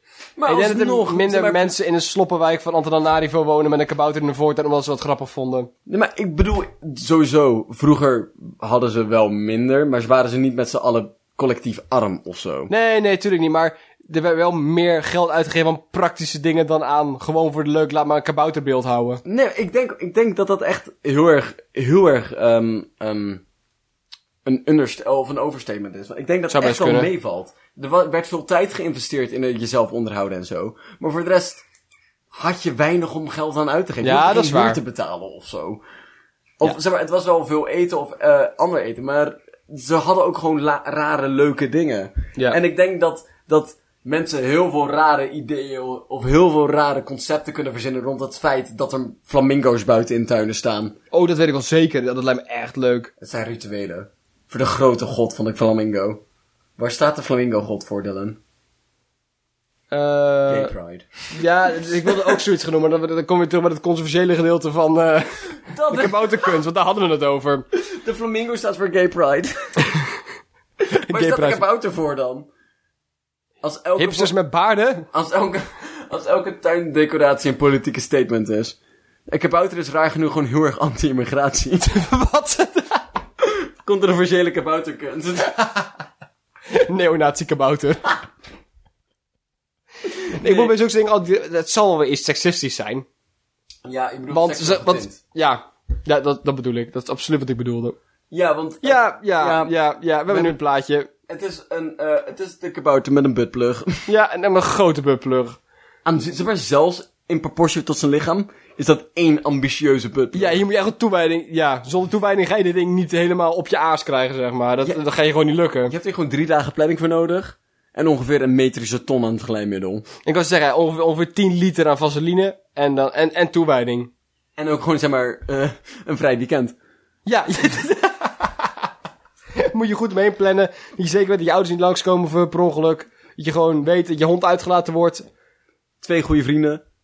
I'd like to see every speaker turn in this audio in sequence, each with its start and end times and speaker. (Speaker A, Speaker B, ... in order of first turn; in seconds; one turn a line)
Speaker A: 0.4-1.7
Speaker B: 0.5-5.7
Speaker A: 5.9-12.7
Speaker B: 12.7-19.2
Speaker A: 19.2-23.4
Speaker A: 24.4-31.6
Speaker B: 26.5-27.1
Speaker A: 32.3-35.8
Speaker B: 34.0-34.8
Speaker A: 36.6-51.0
Speaker B: 51.1-53.1
Speaker A: 53.2-56.2
Speaker A: 56.8-58.4
Speaker B: 59.9-60.7
Speaker A: 60.5-61.2
Speaker B: 61.3-67.6
Speaker A: 62.0-62.4
Speaker A: 65.7-66.6
Speaker A: 67.7-69.5
Speaker B: 70.9-71.6
Speaker A: 71.0-72.5
Speaker A: 73.6-74.3
Speaker B: 74.0-75.1
Speaker A: 75.1-78.8
Speaker A: 79.3-81.9
Speaker B: 81.8-83.0
Speaker A: 83.4-85.7
Speaker B: 86.7-88.1
Speaker A: 90.3-90.7
Speaker B: 90.3-93.0
Speaker A: 93.8-95.2
Speaker B: 94.3-98.0
Speaker A: 98.3-99.7
Speaker B: 98.8-101.1
Speaker A: 100.3-100.6
Speaker A: 101.3-104.1
Speaker B: 104.1-105.6
Speaker A: 106.0-110.6
Speaker B: 110.3-115.9
Speaker A: 115.9-120.0
Speaker B: 120.2-124.1
Speaker A: 124.6-126.8
Speaker B: 127.2-128.7
Speaker B: 129.6-135.2
Speaker A: 136.0-136.8